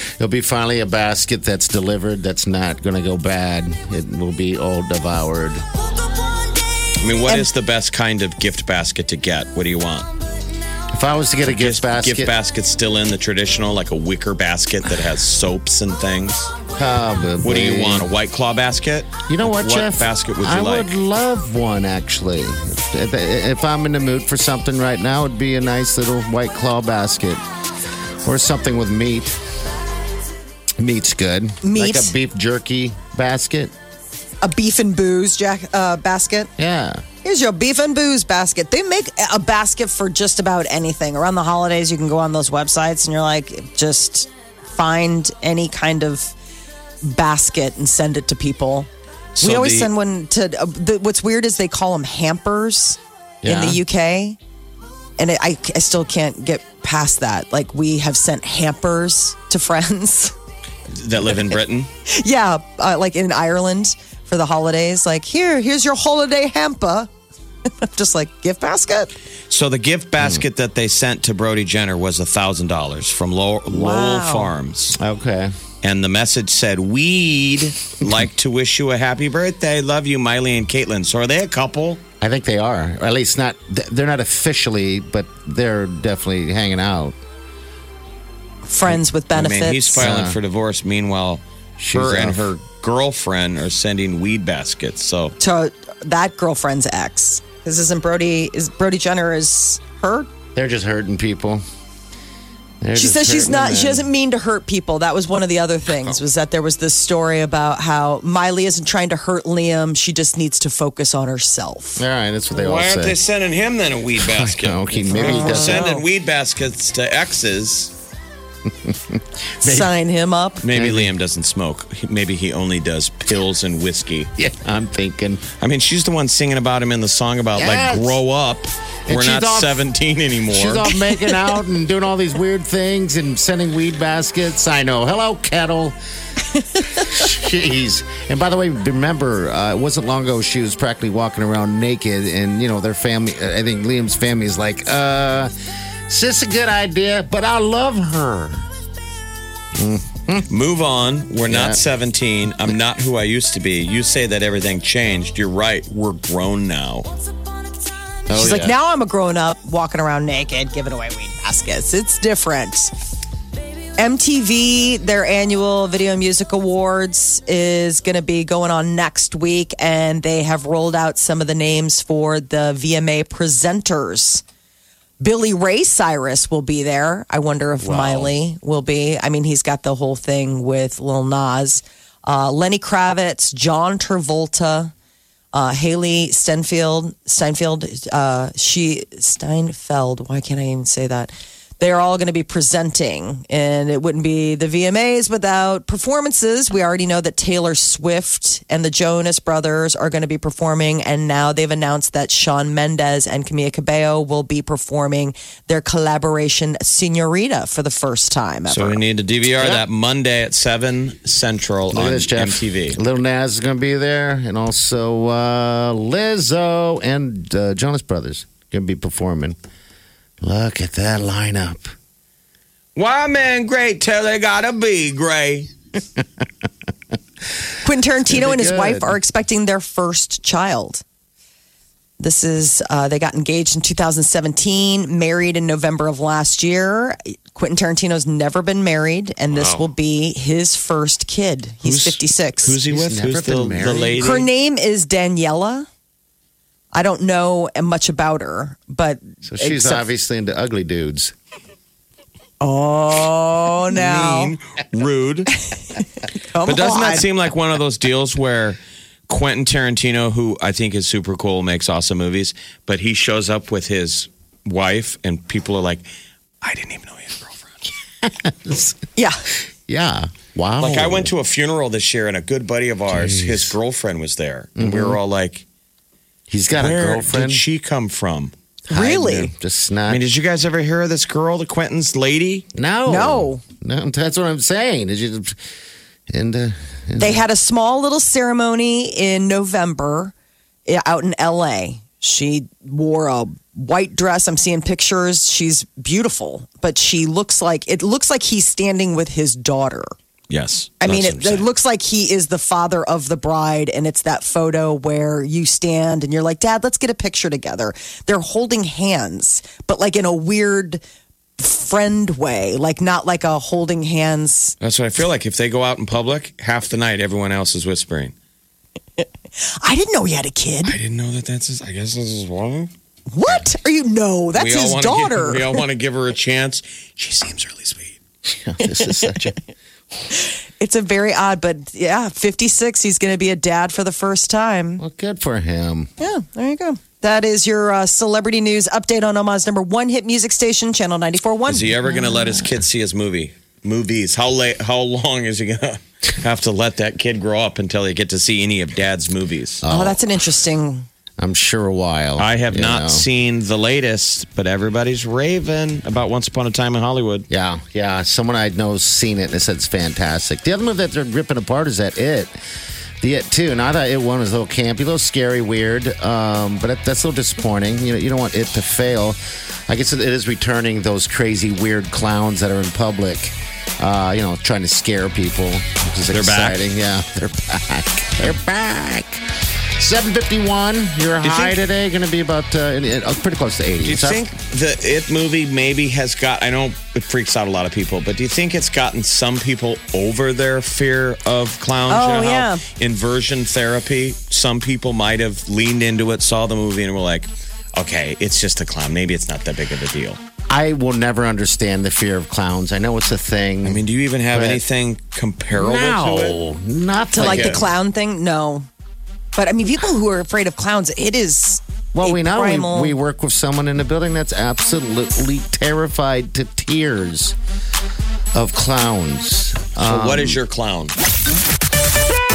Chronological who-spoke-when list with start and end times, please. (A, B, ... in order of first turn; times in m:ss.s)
0:00.2-0:05.6 A
0:07.0-0:10.1 B
0:10.9-0:12.3 A
0:11.5-0:16.5 B
0:16.8-0:18.1 A
0:17.4-0:21.0 B
0:19.3-0:27.4 A
0:28.2-0:29.4 A
0:30.8-0:33.7 A
0:31.6-0:32.1 C
0:34.4-0:36.5 C
0:36.6-0:37.0 A
0:37.2-0:46.4 C
0:47.0-0:54.4 C
0:49.4-0:49.9 B
0:53.4-0:53.8 A
0:55.2-1:00.3 C
1:00.9-1:01.9 B
1:02.1-1:07.1 C
1:07.7-1:09.1 C
1:09.5-1:15.0 B
1:13.7-1:14.5 C
1:15.0-1:15.6 A
1:15.8-1:22.0 B
1:22.2-1:27.2 A
1:28.7-1:30.0 C
1:29.3-1:35.4 B
1:30.0-1:30.4 A
1:31.8-1:32.5 A
1:35.4-1:40.3 C
1:40.6-1:41.6 A
1:42.8-1:44.1 A
1:42.9-1:52.0 C
1:52.0-1:53.2 A
1:52.5-1:57.9 B
1:54.2-1:55.9 A
1:55.1-1:56.0 C
1:58.7-1:59.9 A
1:59.6-2:00.6 C
2:00.6-2:04.3 B
2:00.7-2:01.1 A
2:04.4-2:05.4 A
2:05.6-2:10.8 B
2:07.6-2:08.2 A
2:09.1-2:09.8 A
2:10.5-2:16.0 A
2:16.9-2:25.5 A
2:26.1-2:28.6 A
2:29.8-2:30.5 A
2:30.5-2:37.1 B
2:31.5-2:31.8 A
2:38.3-2:38.7 A
2:38.3-2:42.9 C
2:44.0-2:54.4 C
2:55.2-3:04.9 C
2:57.8-2:58.3 A
3:05.5-3:29.0 C
3:28.7-3:33.0 B
3:31.9-3:39.6 A
3:40.4-3:41.9 A
3:43.0-3:45.7 B
3:47.8-3:51.0 C
3:48.2-3:49.2 A
3:52.2-4:02.8 C
3:59.5-3:59.9 B
4:01.8-4:04.5 B
4:02.9-4:04.2 A
4:04.2-4:05.9 C
4:06.9-4:10.0 C
4:09.4-4:11.3 A
4:12.6-4:14.6 C
4:13.9-4:15.5 B
4:16.4-4:17.3 C
4:16.6-4:18.8 B
4:19.3-4:26.0 B
4:26.6-4:27.9 B
4:28.2-4:29.0 A
4:29.2-4:29.4 C
4:29.9-4:31.3 A
4:30.8-4:35.6 B
4:33.1-4:33.8 A
4:34.8-4:35.2 A
4:36.5-4:37.6 A
4:36.7-4:38.5 B
4:38.9-4:39.5 C
4:38.9-4:40.2 A
4:40.1-4:42.7 B
4:42.8-4:45.6 A
4:43.1-4:43.6 C
4:46.3-4:47.4 A
4:47.2-4:50.3 C
4:50.9-5:00.1 C
5:00.5-5:01.7 B
5:01.0-5:11.0 C
5:11.6-5:14.8 C
5:14.8-5:18.3 B
5:19.2-5:21.0 C
5:20.8-5:22.9 B
5:23.3-5:25.8 C
5:24.6-5:28.2 B
5:28.5-5:29.6 A
5:28.8-5:29.6 C
5:30.3-5:35.0 C
5:35.0-5:36.1 A
5:36.2-5:42.6 C
5:41.7-5:49.8 B
5:49.8-5:50.2 A
5:49.9-5:51.1 C
5:51.4-5:53.3 A
5:52.4-5:57.5 B
5:57.5-6:02.5 A
6:03.2-6:19.5 A
6:16.3-6:16.8 B
6:20.0-6:24.4 A
6:21.4-6:21.8 B
6:24.0-6:40.4 B
6:32.1-6:32.8 C
6:40.7-6:44.8 A
6:43.8-6:46.6 B
6:45.7-6:47.9 A
6:47.3-6:48.9 C
6:47.4-6:47.8 B
6:49.6-6:53.2 C
6:52.1-6:57.6 A
6:58.5-7:00.6 A
7:00.0-7:01.2 B